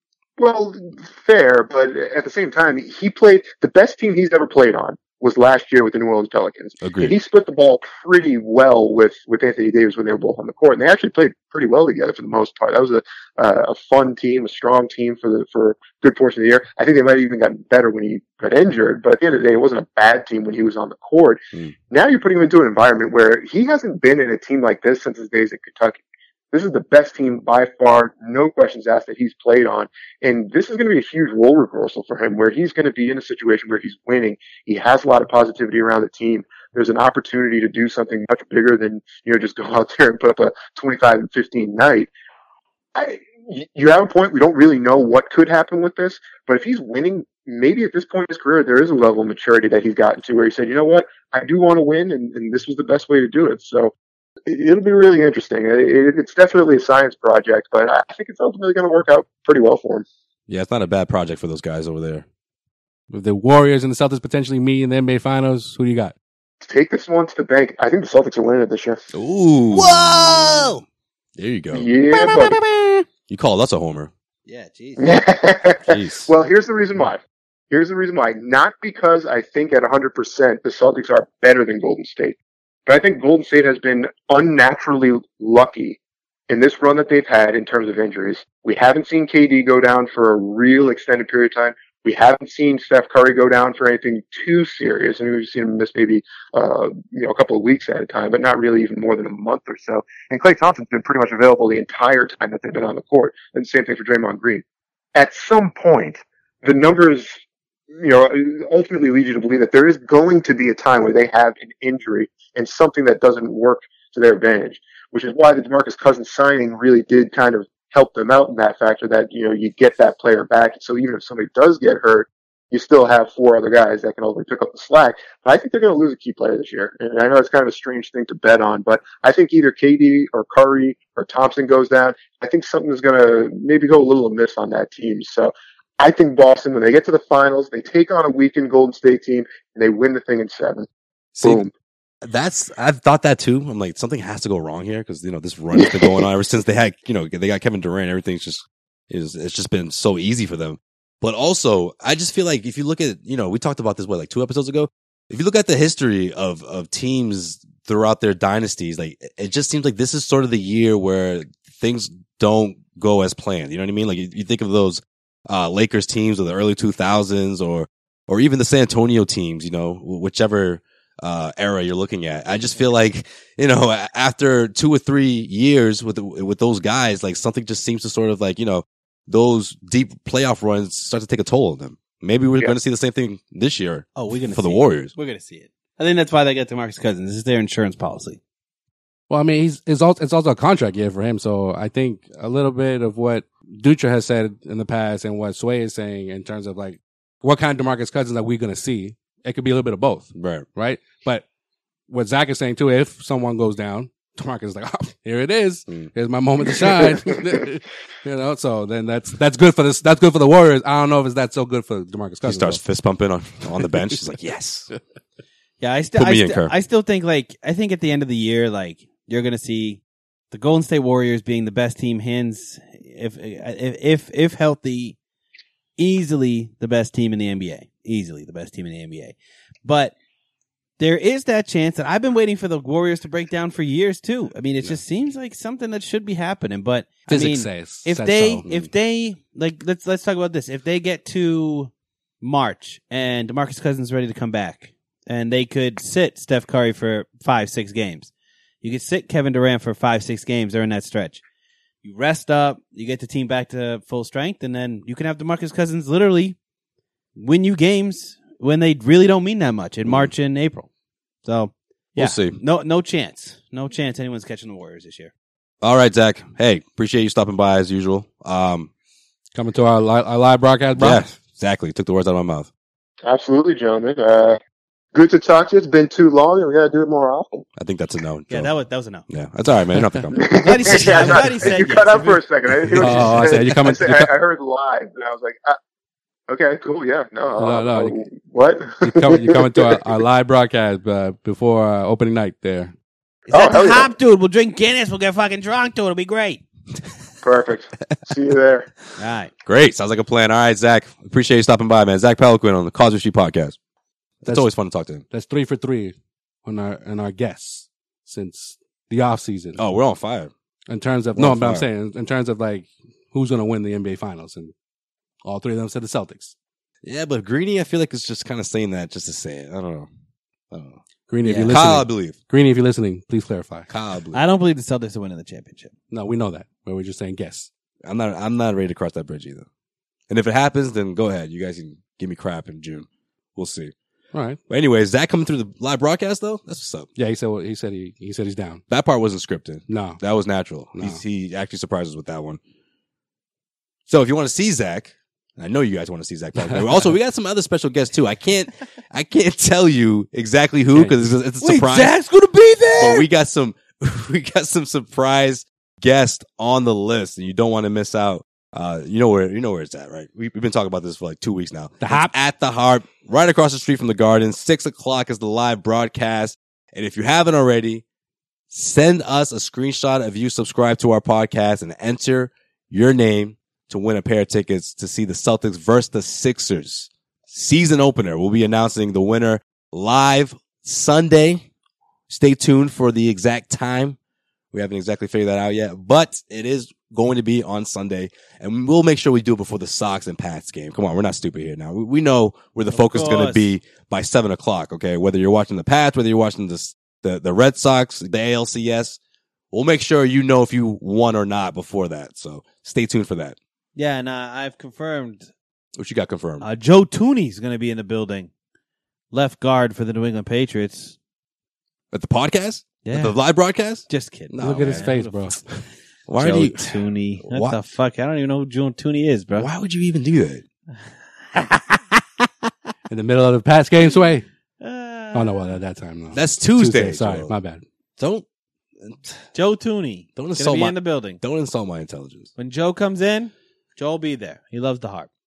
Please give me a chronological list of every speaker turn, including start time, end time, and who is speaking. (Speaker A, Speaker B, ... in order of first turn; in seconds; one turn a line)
Speaker A: 0.4-26.0
Speaker B: 6.8-7.1
Speaker A: 26.5-42.1
Speaker A: 42.9-53.9
Speaker A: 54.5-60.0
Speaker B: 60.5-62.2
Speaker C: 63.1-66.1
Speaker A: 66.6-69.1
Speaker B: 69.1-70.8
Speaker D: 69.7-70.8
Speaker B: 71.3-71.9
Speaker A: 71.7-72.6
Speaker D: 72.1-73.0
Speaker B: 73.3-74.1
Speaker D: 74.5-75.1
Speaker A: 75.0-104.6
Speaker B: 75.9-76.3
Speaker A: 105.1-107.3
Speaker A: 107.9-141.7
Speaker B: 142.2-185.1
Speaker A: 145.7-146.2
Speaker D: 184.2-188.4
Speaker C: 189.3-201.4
Speaker B: 200.3-200.7
Speaker C: 202.1-212.8
Speaker B: 212.4-214.9
Speaker D: 215.8-225.2
Speaker B: 216.1-216.7
Speaker D: 226.0-230.1
Speaker D: 231.0-248.3
Speaker C: 237.3-238.6
Speaker D: 248.8-251.4
Speaker D: 252.0-256.6
Speaker D: 257.4-260.9
Speaker B: 260.0-260.3
Speaker D: 261.4-265.3
Speaker B: 262.1-262.6
Speaker B: 265.8-268.9
Speaker C: 269.5-271.3
Speaker B: 270.9-272.7
Speaker A: 273.2-274.6
Speaker A: 275.1-277.6
Speaker B: 277.8-278.7
Speaker D: 278.5-279.2
Speaker B: 279.3-281.6
Speaker C: 280.0-280.3
Speaker A: 280.3-285.8
Speaker D: 280.6-282.4
Speaker C: 283.0-284.3
Speaker A: 286.5-290.0
Speaker C: 287.6-288.2
Speaker C: 289.0-292.9
Speaker D: 293.5-296.6
Speaker A: 293.5-294.1
Speaker A: 297.4-298.9
Speaker D: 299.2-299.5
Speaker B: 299.6-303.8
Speaker B: 304.4-305.2
Speaker C: 304.4-304.7
Speaker C: 305.3-306.1
Speaker C: 306.6-309.8
Speaker B: 309.8-310.5
Speaker C: 310.9-314.7
Speaker B: 311.3-311.9
Speaker C: 315.4-316.5
Speaker B: 317.0-320.1
Speaker B: 320.7-321.0
Speaker C: 321.3-323.9
Speaker D: 321.4-321.8
Speaker B: 321.7-322.4
Speaker B: 323.9-324.4
Speaker D: 324.3-325.9
Speaker C: 326.1-327.7
Speaker B: 328.0-329.6
Speaker B: 330.3-333.9
Speaker C: 334.3-334.6
Speaker B: 334.7-337.1
Speaker C: 337.2-338.8
Speaker B: 338.9-342.6
Speaker C: 339.9-340.2
Speaker C: 340.9-341.2
Speaker B: 344.1-352.2
Speaker C: 346.7-347.0
Speaker D: 351.6-353.2
Speaker B: 353.0-368.0
Speaker C: 362.0-362.3
Speaker B: 368.7-381.7
Speaker B: 382.3-384.2
Speaker B: 384.7-399.2
Speaker D: 392.9-393.7
Speaker B: 399.7-403.6
Speaker D: 403.9-405.5
Speaker B: 405.9-406.7
Speaker D: 406.6-408.5
Speaker D: 409.3-411.2
Speaker B: 412.1-415.1
Speaker D: 413.0-413.4
Speaker D: 414.1-415.5
Speaker C: 414.6-415.8
Speaker B: 416.3-417.8
Speaker D: 416.4-419.7
Speaker B: 419.6-420.6
Speaker C: 423.1-424.4
Speaker D: 424.8-425.7
Speaker C: 425.3-427.8
Speaker B: 426.3-427.5
Speaker B: 428.2-428.4
Speaker B: 429.0-429.4
Speaker D: 429.5-431.4
Speaker B: 430.4-432.5
Speaker D: 432.6-435.3